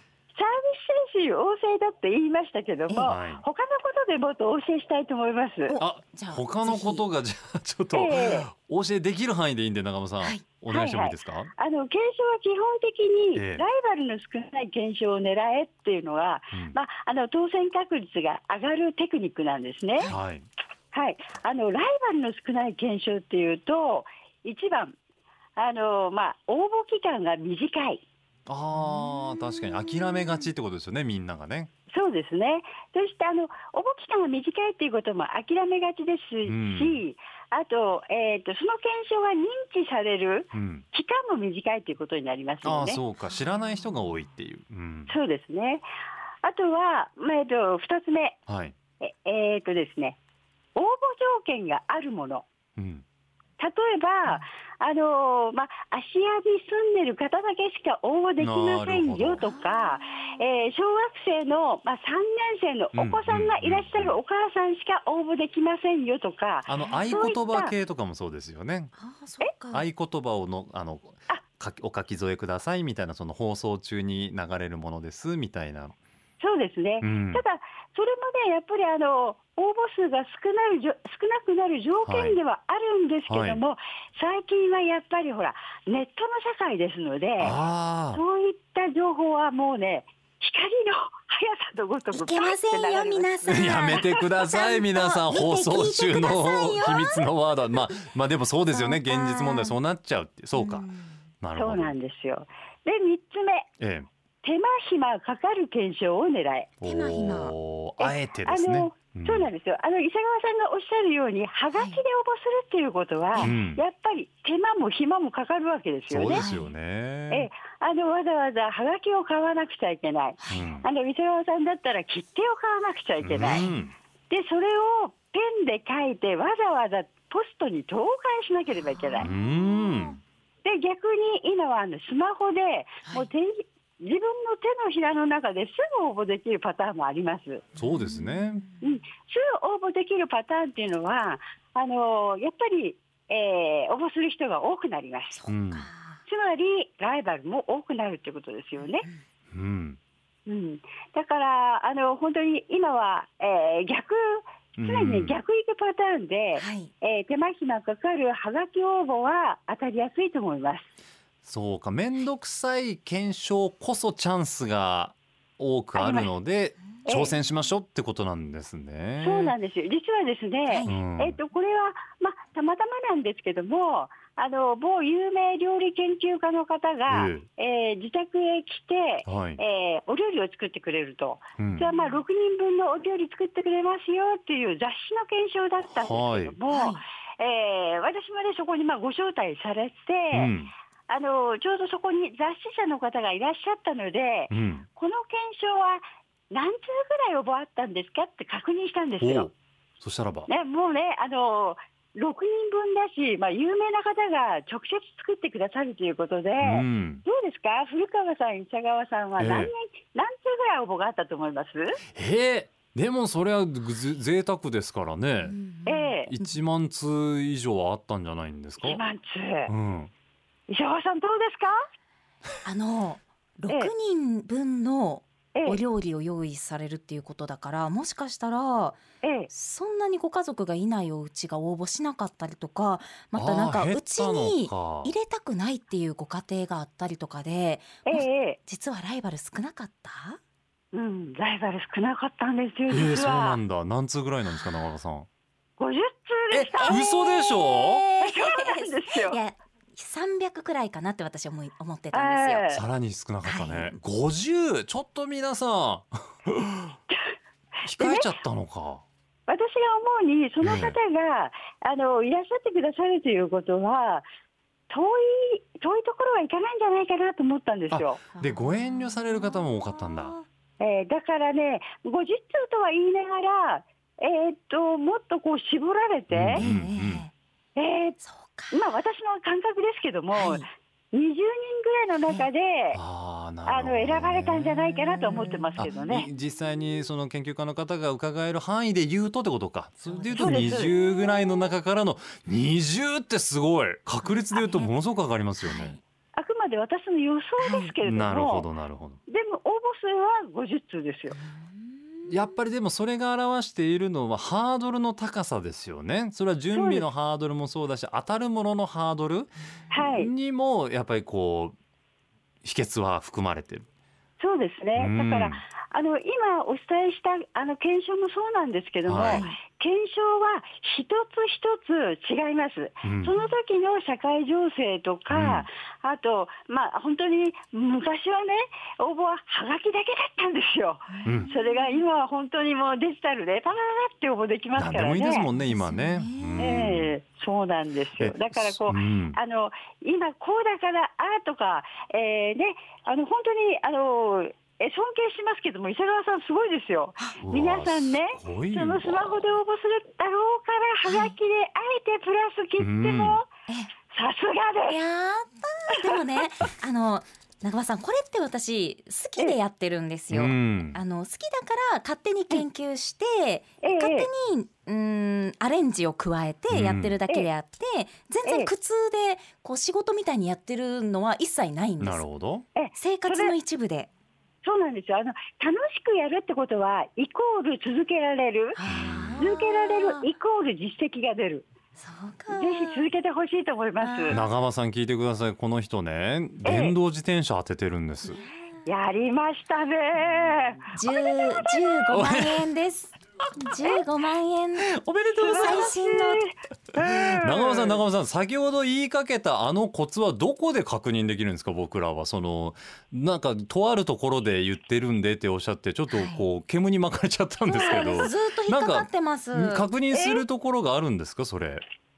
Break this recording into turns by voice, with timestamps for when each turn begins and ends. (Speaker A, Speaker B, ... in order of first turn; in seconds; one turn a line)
Speaker A: 0.3-5.8
Speaker B: 3.0-3.4
Speaker C: 5.7-7.0
Speaker B: 5.8-11.5
Speaker A: 7.9-8.5
Speaker A: 10.7-20.1
Speaker B: 13.3-13.6
Speaker B: 16.5-16.8
Speaker B: 20.1-20.5
Speaker A: 20.9-24.9
Speaker A: 25.6-28.0
Speaker B: 28.5-31.7
Speaker A: 31.9-43.0
Speaker B: 36.5-37.0
Speaker B: 40.5-40.8
Speaker B: 42.6-45.1
Speaker A: 45.1-45.8
Speaker A: 46.4-48.4
Speaker B: 48.5-48.8
Speaker A: 49.0-50.2
Speaker A: 50.7-52.5
Speaker B: 52.8-53.0
Speaker A: 53.6-67.7
Speaker B: 58.4-59.4
Speaker C: 59.4-60.0
Speaker B: 62.9-64.2
Speaker B: 66.7-68.9
Speaker C: 66.8-67.2
Speaker C: 69.0-69.8
Speaker B: 69.7-75.9
Speaker A: 76.4-87.6
Speaker B: 77.0-77.4
Speaker B: 82.0-82.4
Speaker B: 83.3-83.6
Speaker B: 87.4-88.2
Speaker A: 88.1-94.0
Speaker C: 92.1-97.3
Speaker B: 93.5-100.8
Speaker C: 98.7-99.7
Speaker C: 100.5-101.1
Speaker B: 101.4-101.9
Speaker A: 101.5-103.7
Speaker B: 103.8-104.1
Speaker A: 104.4-106.7
Speaker B: 106.8-109.5
Speaker C: 106.8-107.5
Speaker A: 108.0-116.4
Speaker B: 113.4-113.8
Speaker B: 116.1-117.5
Speaker C: 116.3-116.7
Speaker A: 117.3-123.6
Speaker B: 120.5-120.8
Speaker B: 123.2-123.9
Speaker C: 123.4-123.7
Speaker A: 124.3-129.3
Speaker C: 129.1-130.2
Speaker B: 129.2-130.2
Speaker A: 130.6-137.6
Speaker B: 137.8-138.6
Speaker C: 137.9-138.7
Speaker A: 138.8-145.3
Speaker C: 145.3-146.2
Speaker B: 145.5-145.9
Speaker A: 146.3-149.1
Speaker B: 149.5-150.0
Speaker A: 150.5-160.9
Speaker B: 154.8-155.4
Speaker C: 156.6-156.9
Speaker B: 161.4-169.6
Speaker A: 165.9-166.3
Speaker A: 167.1-167.3
Speaker A: 169.2-190.5
Speaker C: 170.7-170.9
Speaker B: 170.8-171.4
Speaker B: 177.1-177.4
Speaker B: 179.2-179.6
Speaker B: 181.6-181.8
Speaker C: 181.9-182.2
Speaker B: 185.9-186.6
Speaker C: 186.7-187.0
Speaker B: 190.3-190.7
Speaker A: 191.1-199.5
Speaker B: 194.5-194.8
Speaker B: 199.2-200.5
Speaker A: 200.5-212.0
Speaker B: 206.6-207.2
Speaker B: 209.4-209.7
Speaker B: 212.1-215.6
Speaker C: 215.5-216.1
Speaker A: 215.8-216.3
Speaker B: 216.3-219.0
Speaker A: 218.8-219.7
Speaker B: 219.7-220.1
Speaker A: 220.7-221.9
Speaker C: 222.6-229.0
Speaker A: 225.5-225.8
Speaker A: 229.2-229.5
Speaker C: 229.5-240.4
Speaker B: 233.3-235.1
Speaker A: 238.1-238.6
Speaker A: 240.9-243.6
Speaker B: 242.9-245.3
Speaker A: 245.8-247.3
Speaker B: 246.5-248.0
Speaker C: 246.8-252.8
Speaker A: 248.2-249.4
Speaker A: 252.1-252.8
Speaker B: 252.7-256.9
Speaker C: 253.4-254.0
Speaker A: 257.1-257.3
Speaker B: 257.8-259.0
Speaker A: 258.0-258.3
Speaker A: 259.5-264.2
Speaker B: 260.6-261.0
Speaker A: 264.9-268.2
Speaker B: 267.9-270.3
Speaker C: 268.4-270.4
Speaker A: 270.8-276.6
Speaker B: 276.3-277.2
Speaker C: 276.6-277.3
Speaker A: 277.8-278.2
Speaker C: 278.2-278.8
Speaker A: 278.7-283.0
Speaker C: 280.3-280.6
Speaker B: 282.9-284.8
Speaker A: 283.6-286.3
Speaker C: 285.3-285.8
Speaker B: 285.8-295.9
Speaker C: 290.1-290.7
Speaker A: 290.3-291.4
Speaker C: 294.5-294.9
Speaker C: 295.6-296.0
Speaker A: 296.4-298.7
Speaker C: 297.6-297.9
Speaker B: 298.0-299.2
Speaker A: 299.3-301.4
Speaker B: 302.3-311.8
Speaker A: 306.7-307.1
Speaker A: 309.9-310.3
Speaker B: 312.6-313.8
Speaker A: 314.4-335.5
Speaker B: 314.9-315.6
Speaker B: 319.1-319.4
Speaker C: 319.3-319.6
Speaker B: 323.0-323.3
Speaker B: 325.3-325.7
Speaker C: 331.1-332.0
Speaker B: 331.2-331.5
Speaker B: 334.8-337.1
Speaker C: 335.5-336.9
Speaker A: 336.6-353.5
Speaker B: 338.2-339.4
Speaker B: 347.4-349.5
Speaker C: 351.0-351.3
Speaker B: 352.8-353.4
Speaker A: 354.1-355.0
Speaker C: 354.9-372.2
Speaker B: 360.3-361.0
Speaker A: 363.8-364.3
Speaker B: 366.7-367.2
Speaker A: 368.4-368.7
Speaker B: 372.0-372.6
Speaker A: 372.8-373.5
Speaker C: 372.9-374.1
Speaker A: 374.6-378.8
Speaker C: 378.8-380.2
Speaker B: 378.9-379.5
Speaker A: 379.4-381.6
Speaker C: 382.0-383.1
Speaker A: 382.5-384.4
Speaker C: 384.0-384.4
Speaker B: 384.3-388.4
Speaker A: 386.6-386.9
Speaker A: 388.9-391.8
Speaker C: 390.9-394.9
Speaker B: 392.1-392.6
Speaker B: 394.8-395.9
Speaker A: 395.4-398.0
Speaker C: 395.4-396.4
Speaker B: 397.0-411.8
Speaker C: 406.1-406.4
Speaker C: 407.7-409.9
Speaker A: 407.7-408.3
Speaker A: 410.1-410.4